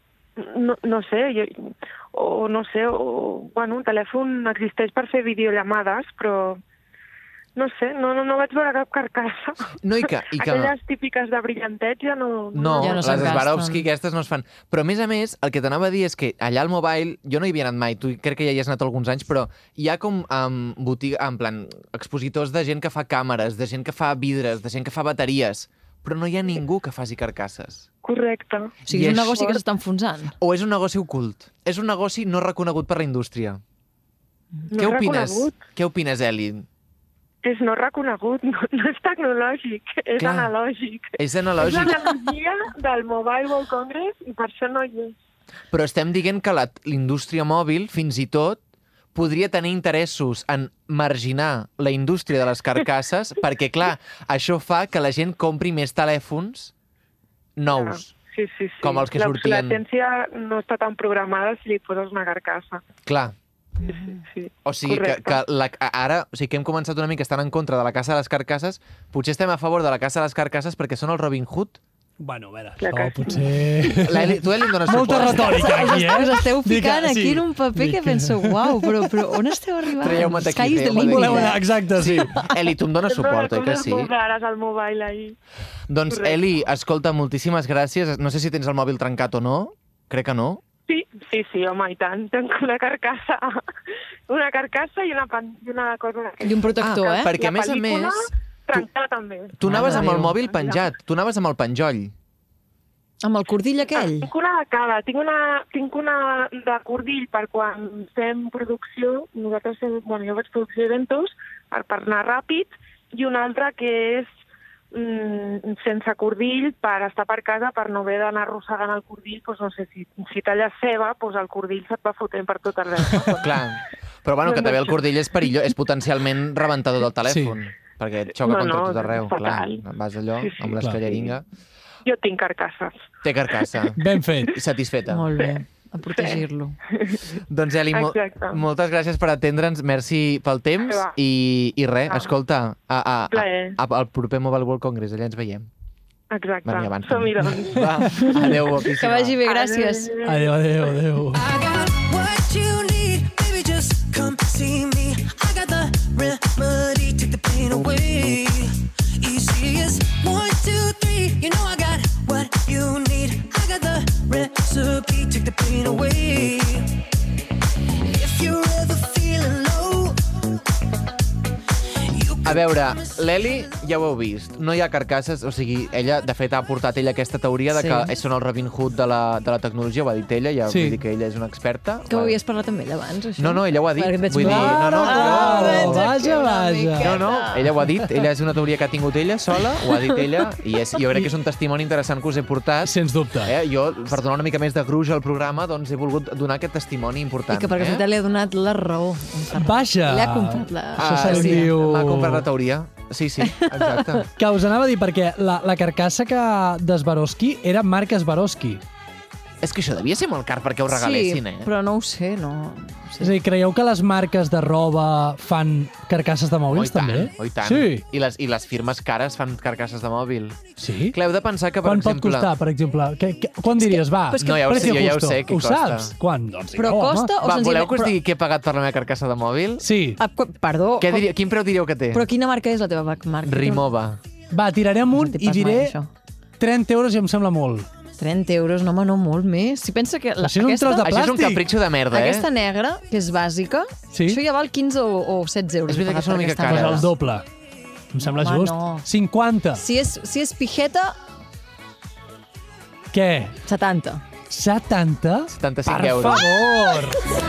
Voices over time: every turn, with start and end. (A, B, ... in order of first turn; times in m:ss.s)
0:00.4-0:06.6 A
0:07.6-0:13.4 A
0:09.8-0:10.7 B
0:12.5-0:27.9 B
0:12.8-0:13.9 C
0:28.0-0:28.8 A
0:28.9-0:29.5 B
0:28.9-0:30.4 C
0:30.4-0:33.6 B
0:34.7-0:35.6 A
0:34.7-0:36.7 B
0:37.4-0:45.2 A
0:40.2-0:40.5 B
0:41.2-0:42.2 B
0:45.7-0:48.6 B
0:49.1-0:56.7 B
0:57.6-0:58.1 B
0:57.7-1:02.8 A
0:58.8-0:59.8 B
1:03.1-1:03.4 B
1:03.8-1:04.2 C
1:03.9-1:05.4 A
1:04.6-1:11.8 B
1:12.2-1:19.3 D
1:12.8-1:13.6 A
1:13.9-1:16.0 B
1:15.1-1:21.6 C
1:20.0-1:24.1 B
1:21.0-1:22.5 D
1:23.1-1:25.4 A
1:25.9-1:30.6 B
1:26.1-1:26.4 A
1:30.9-1:33.6 A
1:34.3-1:36.7 A
1:36.4-1:37.4 C
1:36.8-1:38.8 B
1:37.3-1:40.9 A
1:39.6-1:42.1 B
1:39.6-1:40.3 C
1:43.2-1:44.3 C
1:44.0-1:54.3 A
1:54.9-2:03.6 A
2:03.4-2:11.5 B
2:04.5-2:05.0 A
2:07.3-2:07.6 D
2:08.4-2:09.8 A
2:10.4-2:11.3 A
2:10.7-2:11.0 D
2:12.0-2:13.0 A
2:13.2-2:15.3 B
2:14.0-2:14.6 D
2:15.1-2:16.8 C
2:16.1-2:16.4 A
2:16.9-2:18.6 A
2:17.5-2:25.7 B
2:20.9-2:21.2 A
2:22.1-2:22.3 A
2:23.3-2:23.8 A
2:26.3-2:28.4 A
2:26.6-2:29.4 B
2:28.1-2:30.1 C
2:29.4-2:30.5 A
2:30.2-2:31.4 D
2:31.3-2:47.0 E
2:48.0-2:50.2 E
2:52.0-2:53.8 E
2:52.4-3:02.4 B
2:57.7-2:58.1 C
3:00.7-3:01.0 D
3:02.1-3:07.9 C
3:03.4-3:06.1 B
3:04.4-3:07.2 D
3:07.0-3:18.1 B
3:12.8-3:13.6 D
3:17.5-3:21.7 C
3:19.6-3:22.4 D
3:21.0-3:24.2 B
3:23.4-3:24.2 C
3:24.4-3:28.8 D
3:29.6-3:31.7 B
3:30.9-3:33.4 C
3:33.2-3:38.0 D
3:36.7-3:42.5 B
3:40.8-3:41.2 D
3:41.8-3:47.3 D
3:43.8-3:45.0 C
3:44.4-3:46.2 B
3:46.7-3:48.2 C
3:47.4-3:49.9 B
3:49.8-3:50.2 D
3:50.2-3:51.3 C
3:51.0-3:52.3 B
3:52.1-3:53.9 C
3:53.4-3:54.2 B
3:54.5-3:55.9 D
3:55.1-3:56.1 C
3:56.6-3:57.9 D
3:58.2-4:01.1 C
4:00.4-4:01.6 D
4:01.0-4:02.5 B
4:02.1-4:07.1 C
4:04.1-4:04.4 D
4:05.9-4:07.1 B
4:06.7-4:07.5 D
4:08.1-4:09.8 D
4:08.2-4:09.1 C
4:09.7-4:11.2 C
4:13.1-4:13.6 D
4:13.7-4:14.2 C
4:14.5-4:17.2 D
4:15.5-4:16.6 B